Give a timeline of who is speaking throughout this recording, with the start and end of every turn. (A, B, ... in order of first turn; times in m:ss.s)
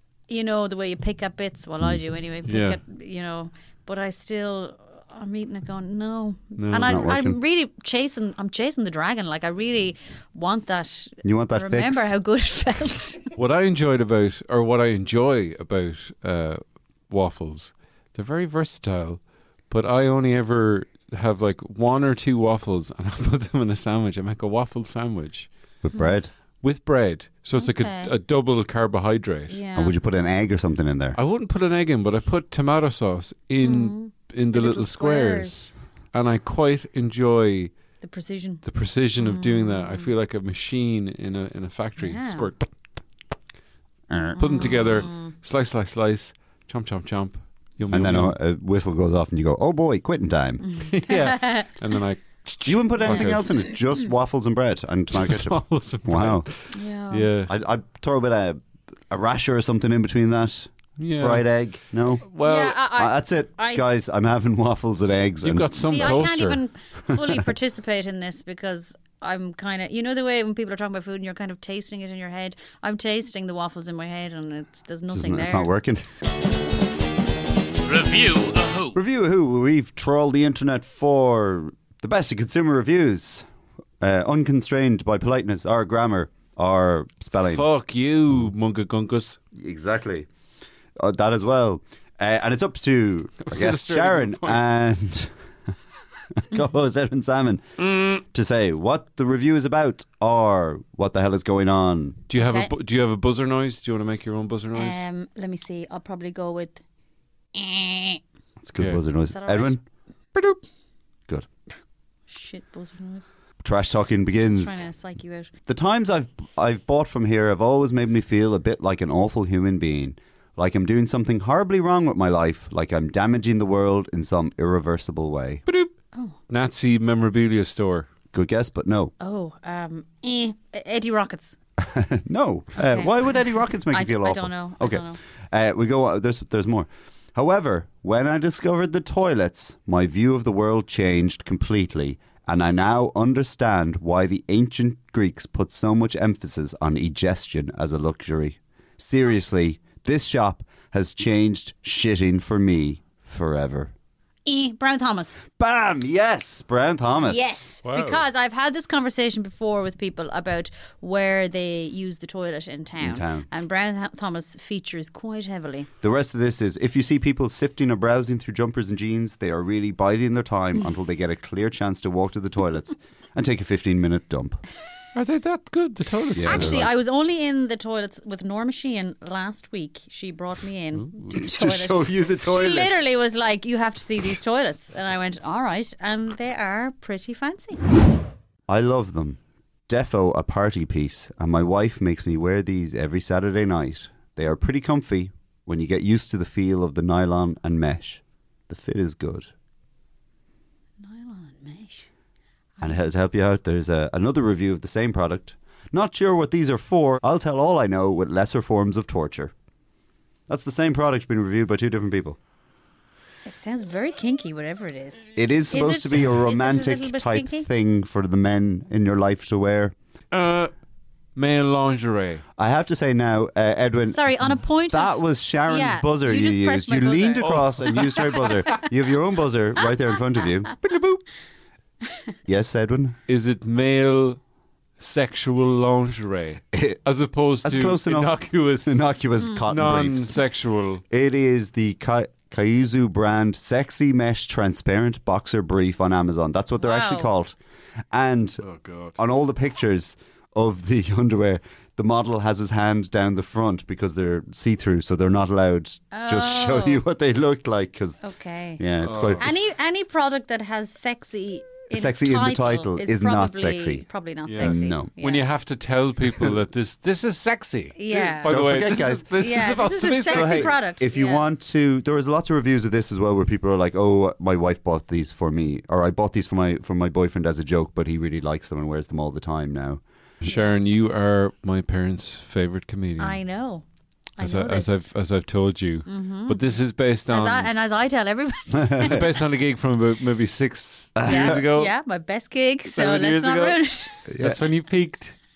0:00.3-0:13.4 A
0:02.4-0:02.8 B
0:06.6-0:07.2 B
0:06.8-0:07.4 C
0:11.2-0:12.1 C
0:13.4-0:25.5 B
0:25.8-0:26.3 C
0:26.6-0:29.6 B
0:27.6-0:28.1 A
0:29.5-0:29.9 A
0:29.7-0:31.2 C
0:31.1-0:37.7 B
0:33.6-0:35.8 A
0:38.0-0:38.6 A
0:38.6-0:42.7 B
0:39.2-0:40.1 A
0:42.0-0:42.5 A
0:44.1-0:44.7 C
0:44.4-0:45.3 A
0:44.4-0:48.4 B
0:47.9-0:50.7 C
0:50.6-0:51.7 A
0:50.8-0:53.4 B
0:52.6-0:56.5 C
0:53.1-0:53.3 A
0:55.1-0:57.5 B
0:56.7-0:57.3 A
0:57.5-1:02.3 C
1:01.0-1:01.4 B
1:02.2-1:02.8 B
1:02.4-1:03.8 A
1:02.8-1:06.3 C
1:05.4-1:06.6 B
1:05.8-1:15.7 A
1:15.1-1:16.1 C
1:17.8-1:19.0 B
1:18.9-1:23.4 C
1:24.0-1:27.7 C
1:27.3-1:29.4 B
1:29.5-1:30.3 C
1:31.0-1:35.3 C
1:33.4-1:34.7 B
1:36.4-1:42.2 C
1:42.3-1:45.0 B
1:42.3-1:42.7 A
1:44.7-1:46.8 A
1:47.5-1:48.2 A
1:48.6-1:49.8 C
1:49.3-1:49.8 A
1:52.3-1:53.2 A
1:53.6-1:54.8 C
1:54.4-1:55.5 A
1:55.7-2:05.6 C
2:05.7-2:05.9 B
2:06.5-2:08.1 B
2:08.3-2:09.1 C
2:09.2-2:11.6 A
2:11.8-2:33.9 C
2:12.8-2:13.4 A
2:13.9-2:15.2 A
2:34.4-2:35.4 A
2:35.6-2:37.5 C
2:37.2-2:45.9 A
2:37.8-2:38.2 B
2:43.0-2:43.4 C
2:46.0-2:54.6 C
2:55.1-2:56.9 B
2:56.3-2:56.9 C
2:56.4-3:07.8 A
3:01.0-3:01.3 B
3:01.3-3:02.9 C
3:08.7-3:19.5 C
3:21.0-3:22.1 A
3:22.8-3:29.5 C
3:30.5-3:32.4 C
3:33.4-3:37.7 A
3:35.4-3:39.9 C
3:40.3-3:40.7 B
3:41.3-3:42.4 B
3:42.6-3:50.8 C
3:44.1-3:48.8 A
3:47.4-3:48.3 B
3:50.8-3:51.2 B
3:52.4-3:53.2 C
3:53.3-3:54.4 B
3:55.0-3:59.0 B
3:57.6-4:00.4 C
3:59.6-4:01.0 B
4:01.1-4:07.5 C
4:06.8-4:07.3 A
4:08.1-4:08.6 C
4:08.6-4:09.2 B
4:09.2-4:18.2 C
4:16.1-4:17.0 A
4:18.2-4:18.8 A
4:18.8-4:19.5 C
4:19.0-4:19.5 B
4:19.4-4:25.4 A
4:21.9-4:24.0 C
4:24.4-4:30.8 B
4:24.6-4:25.1 C
4:28.0-4:31.4 A
4:28.1-4:29.4 C
4:30.1-4:40.0 C
4:40.4-4:43.4 B
4:40.4-4:40.7 A
4:43.2-4:43.8 A
4:44.4-4:45.0 A
4:44.4-4:47.7 B
4:46.1-4:46.7 A
4:47.3-4:49.3 A
4:48.7-4:49.2 C
4:49.0-4:51.9 B
4:51.2-4:51.6 C
4:51.2-4:54.2 A
4:52.9-4:53.8 B
4:54.3-4:54.6 C
4:54.4-4:55.4 B